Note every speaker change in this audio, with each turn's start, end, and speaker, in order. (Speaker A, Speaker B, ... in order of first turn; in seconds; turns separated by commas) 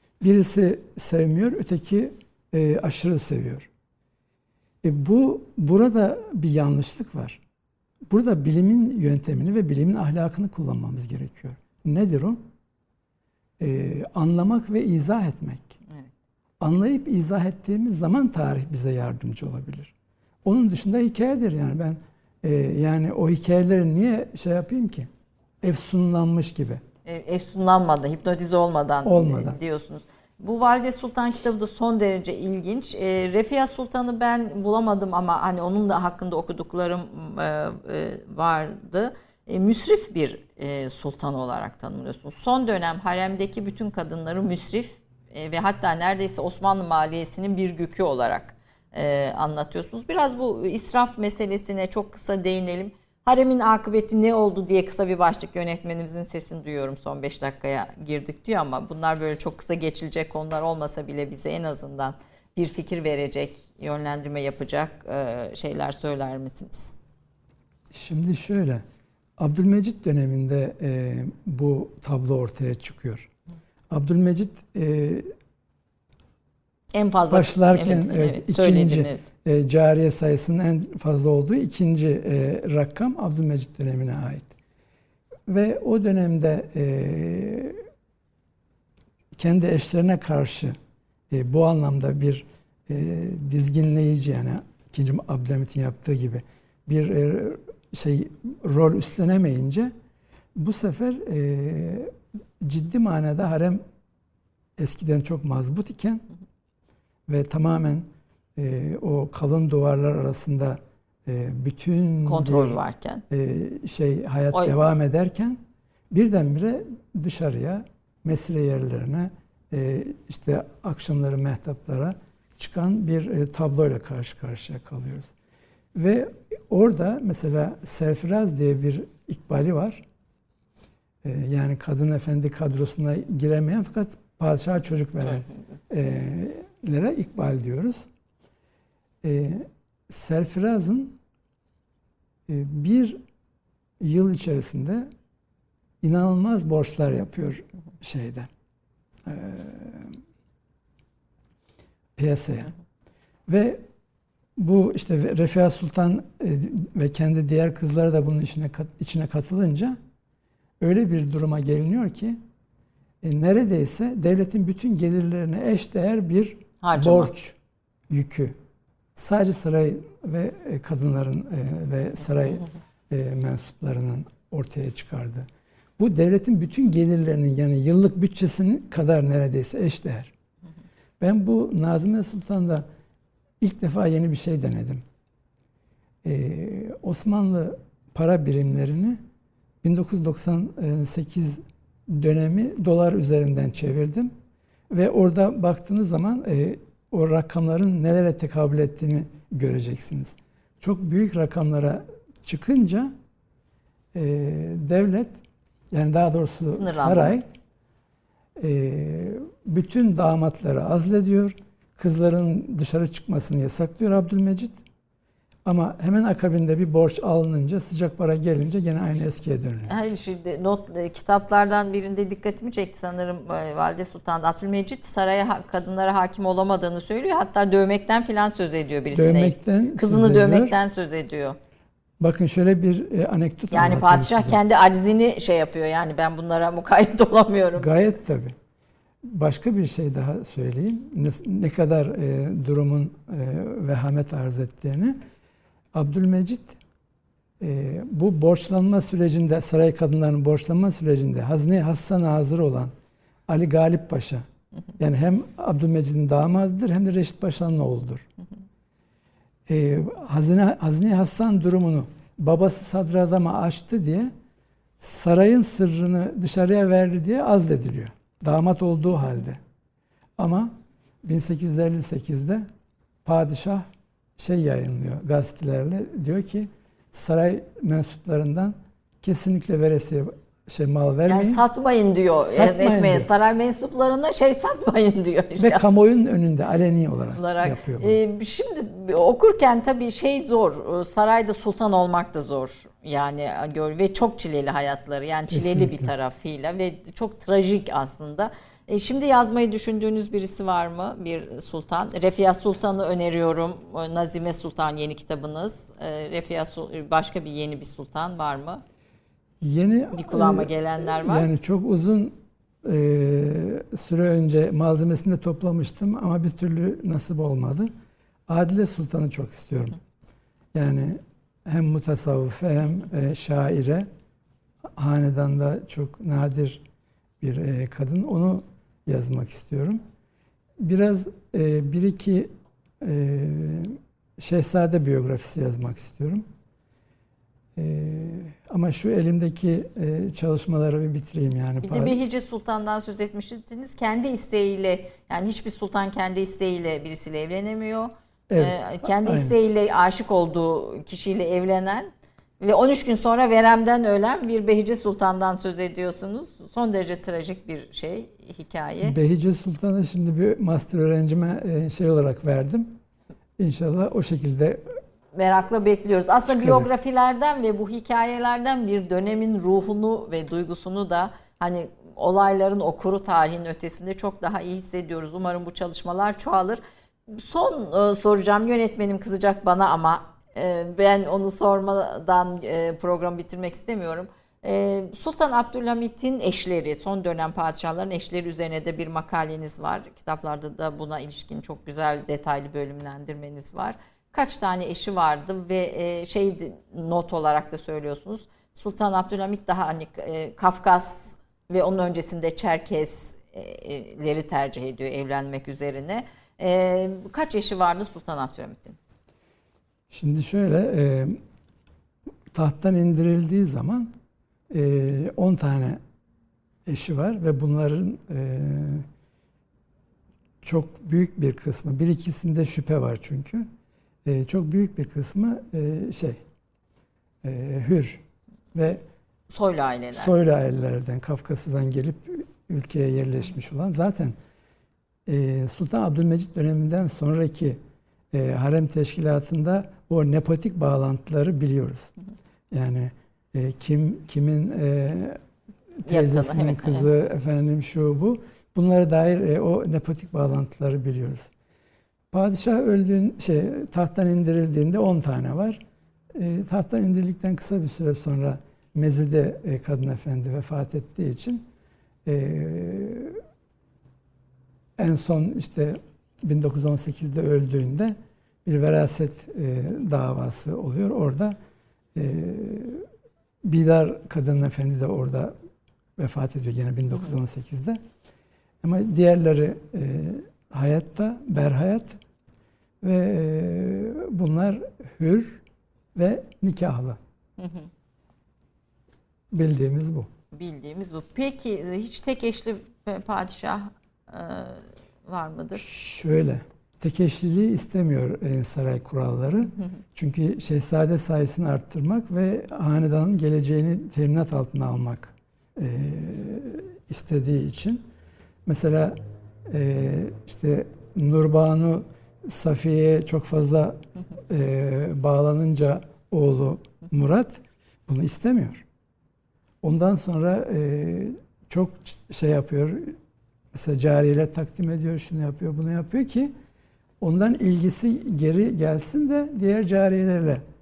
Speaker A: 0.2-3.7, Speaker A: 4.8-7.4, Speaker A: 8.1-12.4, Speaker A: 13.6-15.8, Speaker A: 16.6-19.9, Speaker A: 20.4-25.1, Speaker A: 25.6-26.8, Speaker B: 27.1-66.9, Speaker A: 29.0-29.6, Speaker A: 67.9-68.8, Speaker A: 69.4-73.3, Speaker A: 73.9-75.3, Speaker B: 76.9-79.2, Speaker A: 77.3-84.5, Speaker A: 85.5-87.8, Speaker A: 89.4-90.8, Speaker A: 91.3-99.9, Speaker A: 100.5-103.8, Speaker A: 104.8-106.2, Speaker A: 107.3-112.8, Speaker B: 112.2-113.2, Speaker A: 113.3-125.3, Speaker A: 125.9-130.0, Speaker A: 131.2-138.1, Speaker A: 139.2-141.2, Speaker A: 142.5-143.2, Speaker A: 144.0-145.1, Speaker A: 146.0-148.5, Speaker A: 149.2-150.2, Speaker A: 152.2-152.7, Speaker A: 153.5-153.8, Speaker A: 154.6-160.0, Speaker A: 160.8-162.4, Speaker A: 163.2-167.6, Speaker B: 166.8-167.3, Speaker A: 168.1-168.6, Speaker A: 169.2-180.3, Speaker A: 181.2-182.8, Speaker A: 183.6-185.0, Speaker A: 186.2-189.2, Speaker A: 189.8-194.3, Speaker A: 194.9-203.1, Speaker A: 204.1-207.5, Speaker B: 206.7-207.4, Speaker A: 208.6-214.8, Speaker A: 215.7-219.9, Speaker B: 219.9-231.6, Speaker A: 229.1-230.8, Speaker A: 232.2-234.6, Speaker B: 233.7-237.9, Speaker A: 237.8-238.6, Speaker A: 239.2-245.2, Speaker A: 245.9-246.8, Speaker A: 247.6-252.9, Speaker A: 253.5-254.4, Speaker A: 255.0-258.3, Speaker A: 259.7-264.3, Speaker A: 265.0-269.6, Speaker A: 270.4-272.7, Speaker A: 273.2-281.6, Speaker B: 281.3-285.8, Speaker A: 282.5-283.3, Speaker A: 285.6-288.2, Speaker B: 287.4-308.8, Speaker A: 295.5-296.1, Speaker A: 309.6-317.9, Speaker B: 310.1-311.5, Speaker A: 318.5-320.0, Speaker A: 320.7-324.1, Speaker A: 325.0-326.9, Speaker A: 327.4-330.0, Speaker A: 330.8-336.5, Speaker A: 337.8-342.2, Speaker B: 341.8-359.2, Speaker A: 348.5-349.6, Speaker A: 359.0-363.0, Speaker A: 363.6-365.0, Speaker B: 365.3-409.0, Speaker A: 366.5-366.9, Speaker A: 410.1-411.4, Speaker A: 412.5-414.1, Speaker A: 414.7-416.0, Speaker A: 416.9-419.1, Speaker A: 420.6-423.7, Speaker A: 424.2-426.4, Speaker A: 427.4-428.2, Speaker A: 428.7-429.0, Speaker B: 429.5-430.3, Speaker A: 430.1-434.4, Speaker A: 435.3-437.8, Speaker A: 438.3-442.1, Speaker A: 442.7-445.4, Speaker A: 446.0-451.5, Speaker B: 446.1-447.1, Speaker A: 452.3-461.6, Speaker A: 462.2-463.4, Speaker A: 465.0-471.6, Speaker A: 472.1-473.1, Speaker A: 473.6-475.6, Speaker A: 476.2-478.0, Speaker A: 478.8-482.2, Speaker A: 483.0-485.6, Speaker A: 486.1-487.2, Speaker B: 487.6-487.9, Speaker A: 489.5-490.3, Speaker B: 490.5-495.9, Speaker A: 495.8-508.1, Speaker A: 508.7-518.9, Speaker A: 519.8-523.2, Speaker A: 523.7-526.5, Speaker A: 527.2-530.6